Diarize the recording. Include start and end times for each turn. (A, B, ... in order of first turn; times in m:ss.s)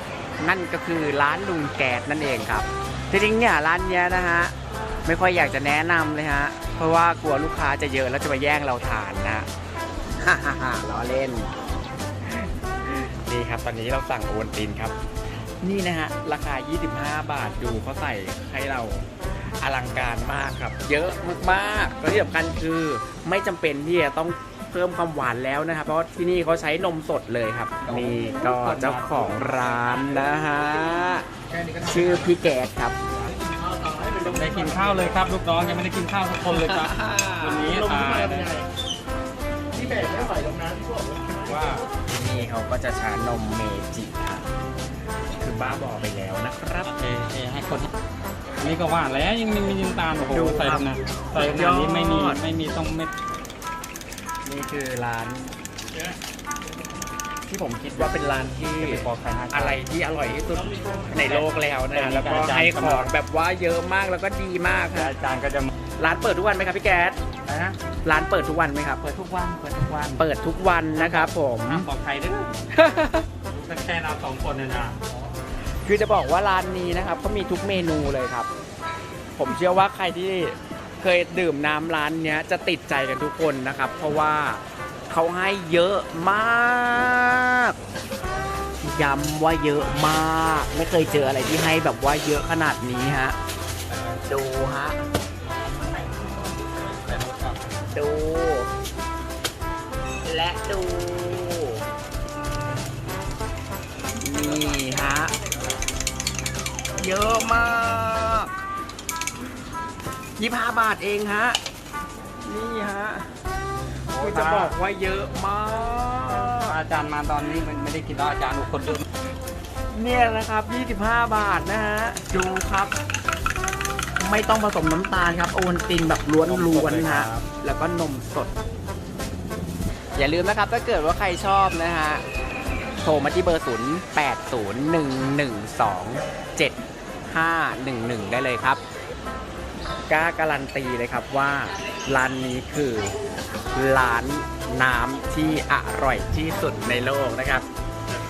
0:00.4-0:04.5 A
0:05.0-0:09.5 A
0:10.2-0:11.5 A
0:12.2-0:15.0 A
0:15.6-0:31.2 A
0:27.8-0:29.9 B
0:31.5-0:32.3 C
0:31.8-0:33.0 A
0:33.3-0:35.1 C
0:34.2-0:38.5 B
0:36.5-0:37.8 A
0:37.7-0:38.6 C
0:39.8-0:40.3 A
0:39.8-0:41.5 C
0:39.8-0:40.2 B
0:41.4-0:41.8 B
0:42.1-0:44.5 A
0:45.4-0:46.9 A
0:46.8-0:47.9 B
0:48.6-0:53.1 B
0:50.2-0:52.4 A
0:54.4-0:55.5 A
0:57.5-1:05.1 A
0:58.8-0:59.8 B
1:00.6-1:01.1 C
1:01.1-1:03.1 B
1:04.9-1:05.7 B
1:06.0-1:07.2 A
1:07.4-1:07.8 B
1:08.0-1:09.0 A
1:09.0-1:10.2 B
1:10.1-1:11.9 A
1:10.9-1:12.6 B
1:12.7-1:13.3 A
1:13.4-1:15.1 B
1:15.8-1:18.5 A
1:19.4-1:27.7 A
1:28.8-1:33.4 A
1:33.9-1:34.2 B
1:34.3-1:35.0 A
1:35.7-1:37.8 B
1:37.9-1:38.7 A
1:40.2-1:41.8 A
1:44.2-1:45.3 A
1:47.0-1:48.5 A
1:50.4-1:51.6 A
1:52.4-1:53.3 A
1:54.1-1:54.8 B
1:54.2-1:56.7 A
1:56.6-1:59.0 B
1:59.9-2:02.9 A
2:04.2-2:08.5 A
2:06.4-2:07.4 B
2:10.2-2:12.2 A
2:13.0-2:18.8 A
2:20.1-2:23.1 A
2:23.7-2:27.6 A